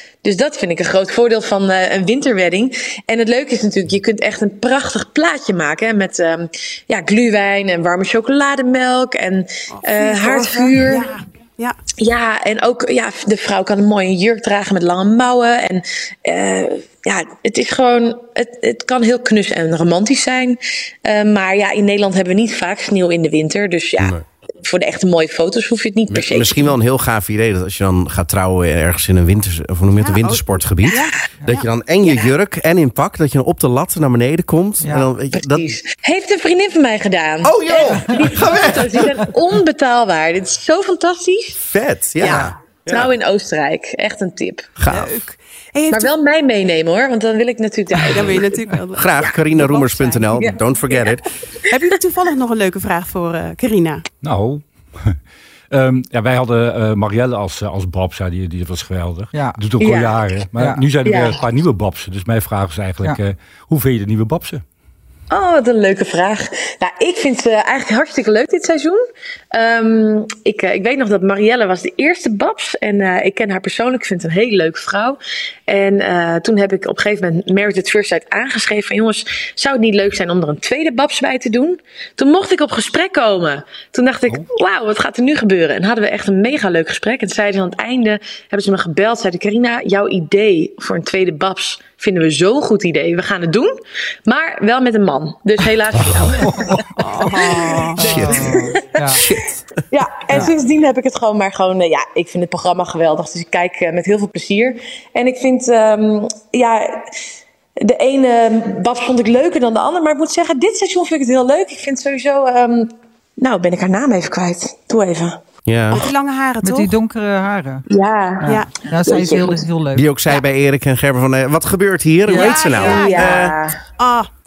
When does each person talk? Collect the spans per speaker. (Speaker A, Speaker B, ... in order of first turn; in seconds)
Speaker A: 0.2-11.1, 12.0-26.7, 32.0-32.3, 35.3-41.6, 42.9-44.7, 45.9-48.5, 59.8-60.4, 61.0-61.4, 65.3-96.7, 97.4-97.9, 98.4-98.9, 99.9-107.1, 107.8-115.4, 117.9-119.6, 122.4-123.8
Speaker B: 9.7-11.8, 30.0-31.6, 42.2-42.5, 44.9-46.1, 48.1-50.4, 51.7-54.0, 97.0-98.1, 115.9-116.9, 122.3-124.3
Speaker C: 26.1-35.6, 37.4-39.2, 41.6-43.1, 44.8-45.1, 48.9-51.2, 96.0-96.4, 98.0-99.5, 115.6-116.1, 119.9-123.5
Speaker D: 34.8-35.1, 59.3-59.6, 60.6-60.8, 96.4-99.2, 116.6-117.8, 118.4-120.1, 122.3-122.6
Speaker E: 54.2-55.2, 55.7-64.6